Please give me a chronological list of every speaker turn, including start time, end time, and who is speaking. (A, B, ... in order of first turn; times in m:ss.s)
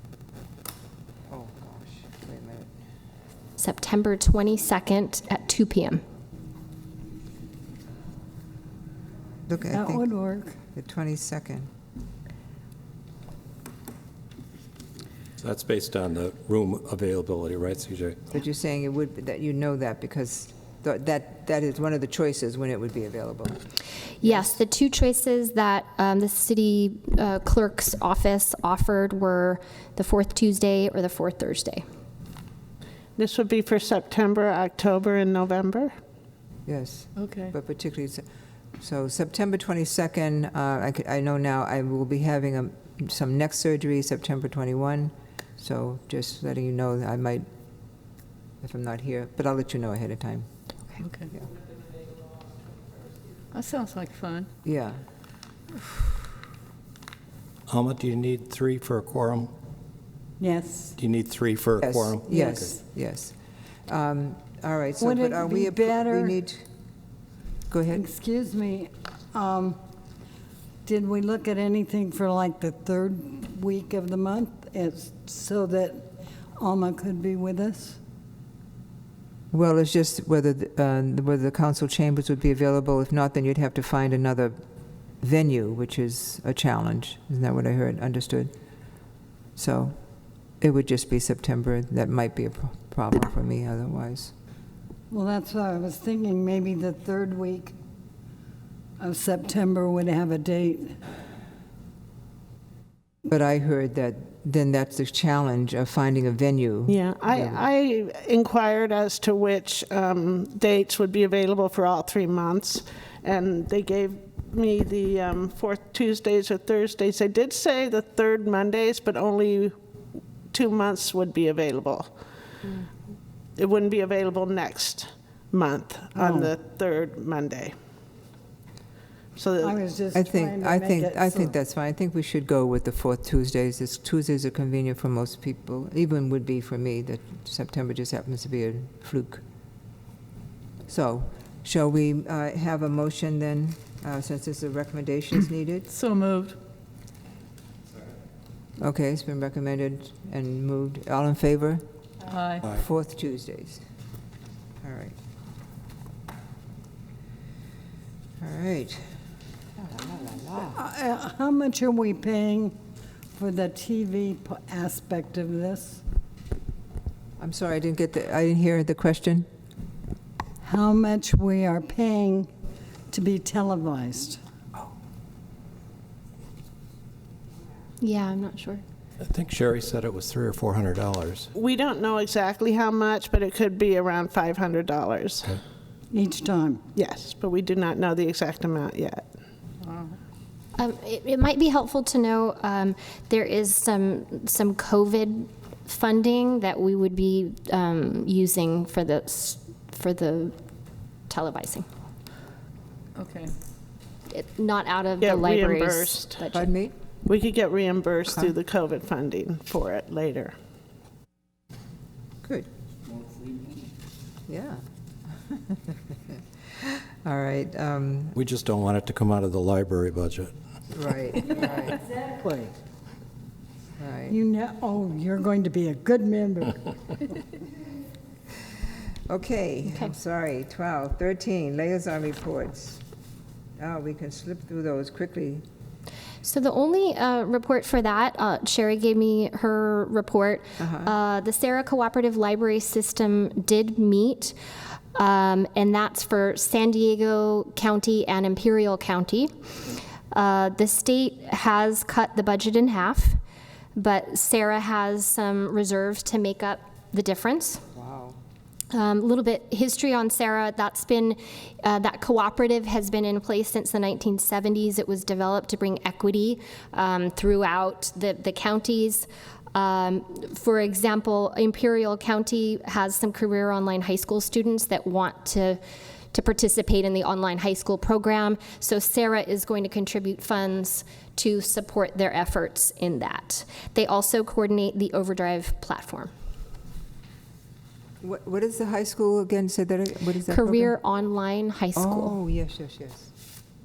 0:01.3-0:02.7 A
0:03.6-0:06.0 B
0:09.5-0:10.0 A
0:09.7-0:10.6 C
0:10.7-0:11.7 A
0:15.4-0:18.3 D
0:18.3-0:23.6 A
0:24.2-0:24.6 A
0:24.2-0:31.8 B
0:33.2-0:35.9 E
0:36.7-0:38.2 A
0:37.2-0:37.5 F
0:38.8-0:47.5 A
0:48.6-0:50.5 A
0:51.0-0:51.3 F
0:53.5-0:54.5 F
0:54.6-0:55.0 A
0:57.7-0:59.5 D
1:00.4-1:01.0 C
1:01.0-1:02.7 D
1:01.8-1:03.4 A
1:03.9-1:06.6 A
1:05.0-1:06.4 C
1:07.7-1:08.0 A
1:07.9-1:09.8 C
1:10.8-1:18.0 C
1:19.5-1:24.6 A
1:25.2-1:28.5 A
1:29.6-1:29.9 A
1:30.6-1:34.3 A
1:35.1-1:37.7 C
1:39.0-1:41.0 C
1:43.2-1:47.6 A
1:46.9-1:59.7 E
2:00.5-2:02.1 E
2:03.6-2:07.7 E
2:06.2-2:06.5 C
2:09.3-2:09.8 E
2:09.6-2:11.5 C
2:10.1-2:19.4 A
2:20.9-2:25.9 A
2:25.9-2:26.6 F
2:28.8-2:31.8 A
2:32.3-2:32.6 F
2:32.6-2:33.8 A
2:34.8-2:35.2 A
2:38.4-2:39.1 A
2:39.8-2:40.8 A
2:40.7-2:42.8 C
2:43.3-2:46.0 C
2:47.4-2:49.4 A
2:50.6-2:52.5 C
2:53.1-2:54.4 C
2:58.0-2:58.8 B
2:59.2-3:01.5 D
3:01.5-3:05.6 E
3:06.1-3:06.8 C
3:07.0-3:09.2 E
3:09.8-3:10.1 F
3:10.8-3:20.6 B
3:21.3-3:21.9 B
3:23.2-3:23.5 F
3:24.3-3:26.7 B
3:25.2-3:26.4 E
3:26.5-3:27.0 A
3:27.2-3:30.5 E
3:32.4-3:32.7 A
3:34.5-3:34.8 A
3:35.4-3:38.3 A
3:38.3-3:40.5 D
3:40.9-3:42.0 A
3:44.0-3:44.4 A
3:44.3-3:46.8 C
3:49.3-3:53.0 A
3:53.8-3:55.6 A
3:56.4-4:04.6 B
4:00.8-4:01.1 A
4:05.1-4:13.4 B
4:13.9-4:17.8 B
4:17.9-4:18.4 A
4:18.9-4:35.8 B
4:36.3-4:46.3 B
4:48.2-4:51.0 A
4:50.5-4:52.4 B
4:52.0-4:53.3 A